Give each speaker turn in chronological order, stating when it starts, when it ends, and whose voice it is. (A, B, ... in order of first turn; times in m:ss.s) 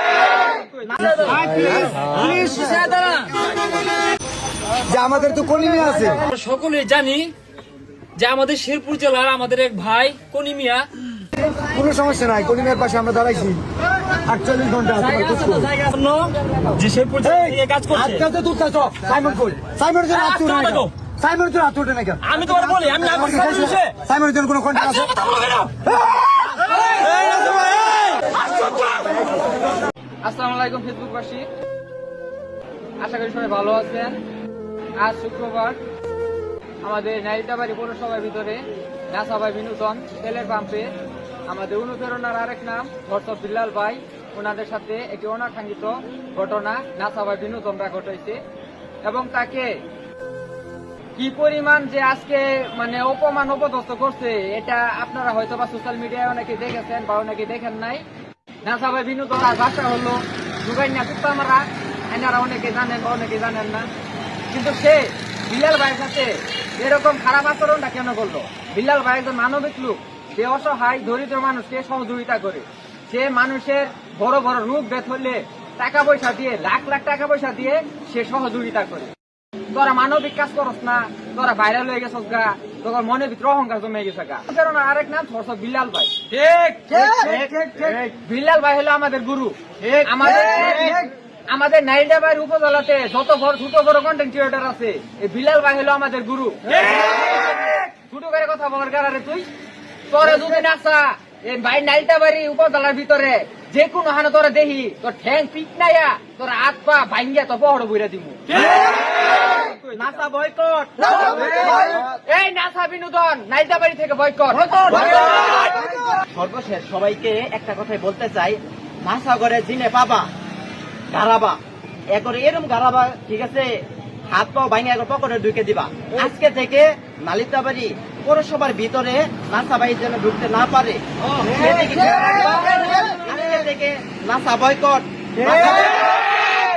0:00.4-0:01.0 A
0:01.0-0:01.7 B
0:01.4-0:02.8 C
0:01.7-0:03.3 D
0:04.8-0:06.2 C
0:06.2-0:07.3 D
0:08.2-0:10.9 D
0:11.5-0:13.6 C
0:14.2-0:15.7 C
0:15.0-0:18.2 D
0:17.2-0:22.3 C
0:20.1-0:20.9 D
0:22.2-0:23.8 D
0:23.0-0:25.1 C
0:25.4-0:25.6 D
0:30.2-0:31.5 A
0:33.0-0:34.2 A
0:35.0-0:35.8 A
0:36.8-0:40.9 A
0:41.5-0:48.4 A
0:49.0-0:49.8 A
0:51.2-0:58.0 A
0:58.6-1:03.9 A
1:04.5-1:19.1 A
1:19.7-1:27.1 A
1:27.0-1:28.1 B
1:28.2-1:39.5 A
1:29.8-1:31.0 B
1:40.1-1:50.2 A
1:49.9-1:52.0 B
1:51.2-1:55.6 A
1:54.8-2:00.3 B
2:01.1-2:01.6 B
2:02.1-2:03.7 B
2:04.3-2:16.1 B